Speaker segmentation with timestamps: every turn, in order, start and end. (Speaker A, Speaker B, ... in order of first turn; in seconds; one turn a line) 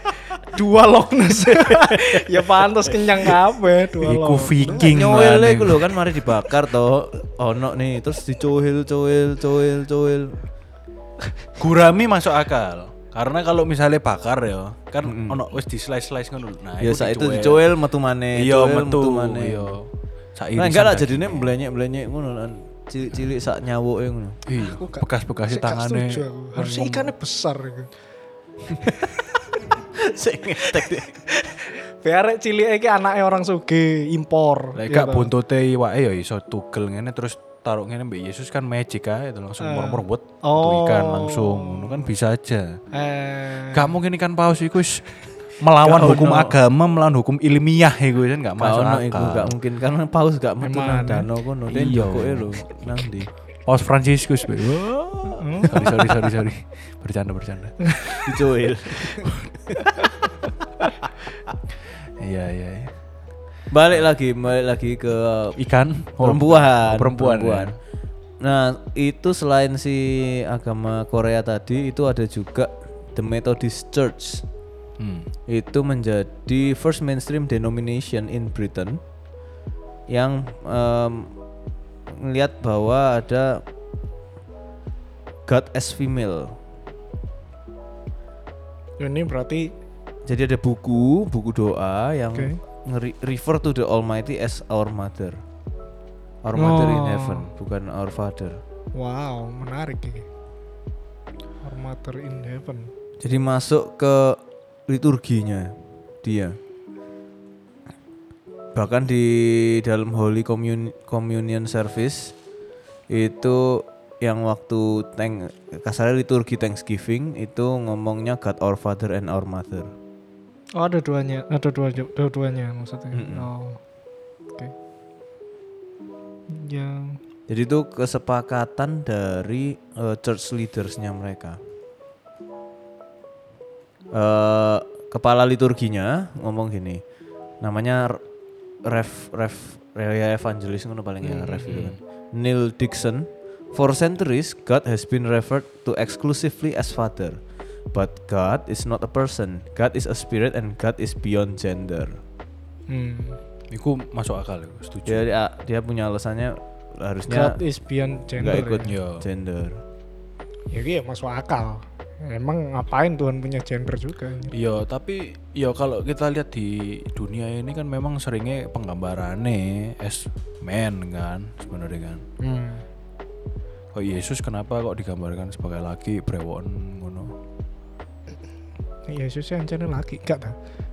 Speaker A: 0.4-4.9
Speaker B: 1.7-2.5
Speaker C: 4.0-5.9
Speaker B: 4.7-10.4
Speaker C: 11.6-17.7
Speaker B: 15.0-15.4
Speaker B: 16.8-19.7
Speaker C: 18.3-21.5
Speaker B: 20.6-24.4
Speaker C: 24.4-27.1
Speaker A: 24.6-27.9
Speaker A: 28.9-29.8
Speaker B: 29.9-31.2
Speaker A: 30.6-35.3
Speaker C: 34.7-42.8
Speaker A: 39.6-42.1
Speaker A: 42.9-43.9
Speaker C: 43.7-45.1
Speaker C: 45.6-49.5
Speaker B: 45.8-46.6
Speaker B: 48.6-53.3
Speaker A: 50.6-51.3
Speaker C: 51.7-52.6
Speaker C: 53.6-57.9
Speaker A: 55.3-55.9
Speaker B: 58.2-59.8
Speaker C: 59.2-59.5
Speaker C: 61.8-63.0
Speaker B: 63.7-65.6
Speaker C: 65.6-67.8
Speaker B: 66.2-67.7
Speaker B: 68.4-74.4
Speaker C: 75.0-75.3
Speaker B: 75.5-79.0
Speaker B: 80.1-81.3
Speaker B: 82.1-83.6
Speaker B: 85.5-86.5
Speaker A: 89.0-89.7
Speaker B: 90.3-95.4
Speaker B: 96.4-98.6
Speaker A: 96.5-97.5
Speaker A: 98.9-100.3
Speaker A: 101.6-102.9
Speaker B: 103.2-106.6
Speaker B: 108.7-112.3
Speaker B: 113.1-119.9
Speaker A: 120.8-123.8
Speaker B: 123.1-123.5
Speaker A: 126.5-127.2
Speaker B: 127.5-131.6
Speaker B: 134.1-137.0
Speaker B: 137.6-138.2
Speaker B: 138.8-147.4
Speaker A: 141.2-141.6
Speaker C: 141.5-142.0
Speaker B: 147.9-152.2
Speaker A: 152.9-153.4
Speaker C: 153.7-155.3
Speaker B: 155.1-157.6
Speaker A: 157.3-158.9
Speaker B: 158.4-159.8
Speaker C: 158.8-159.3
Speaker A: 160.7-164.5
Speaker C: 164.5-172.2
Speaker A: 172.4-172.8
Speaker C: 173.9-177.3
Speaker A: 179.1-180.6